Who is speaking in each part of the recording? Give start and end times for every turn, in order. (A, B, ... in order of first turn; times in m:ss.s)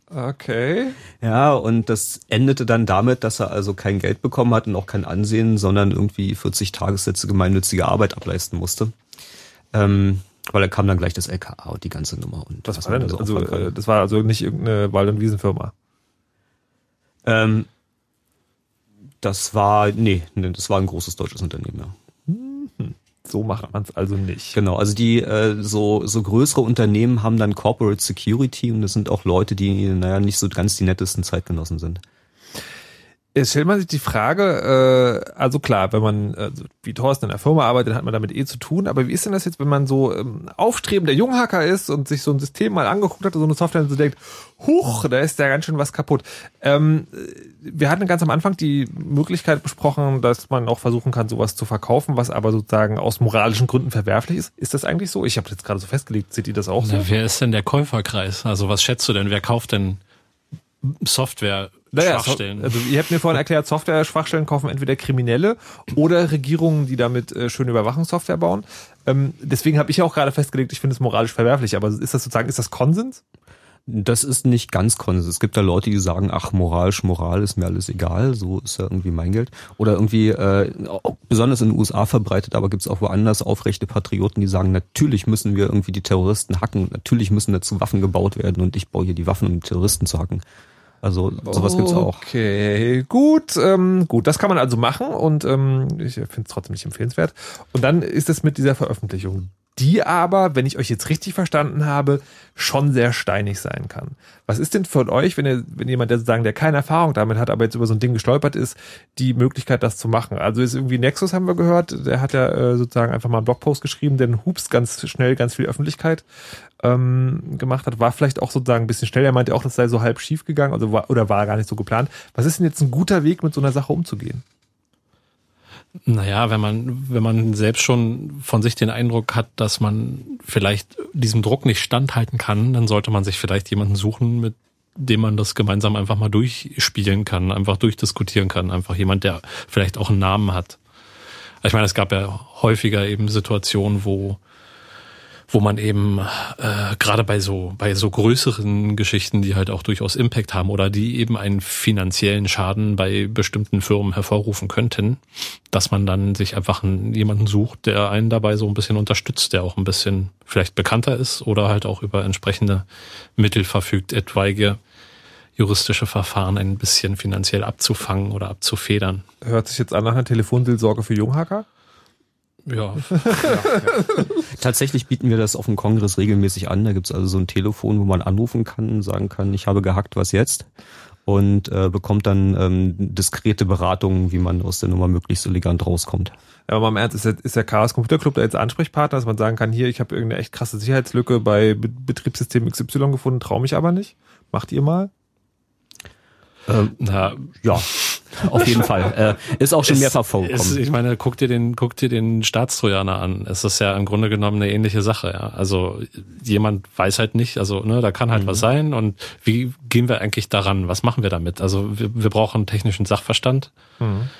0:00.1-0:01.0 A
0:01.2-0:09.0 B
0:09.7-0:13.7 B
0:12.7-0:15.7 A
0:17.2-0:17.7 B
0:19.2-0:21.9 B
0:22.3-0:24.6 A
0:24.5-0:32.0 B
0:33.3-0:57.1 A
0:56.8-1:00.0 C
1:00.8-1:02.8 C
1:01.9-1:13.2 A
1:13.8-1:30.4 B
1:31.0-1:32.2 B
1:31.4-1:56.2 A
1:56.8-2:04.4 A
2:06.1-2:20.8 C
2:21.6-2:24.4 C
2:25.5-2:42.8 C
2:43.4-2:44.8 C
2:45.6-2:49.2 C
2:49.4-2:51.6 A
2:52.6-2:53.7 C
2:53.3-2:54.0 A
2:53.4-3:00.7 B
3:01.2-3:06.3 B
3:06.7-3:15.1 A
3:16.7-3:20.8 B
3:17.0-3:18.8 C
3:19.8-3:33.7 C
3:28.3-3:28.6 B
3:34.0-3:34.3 A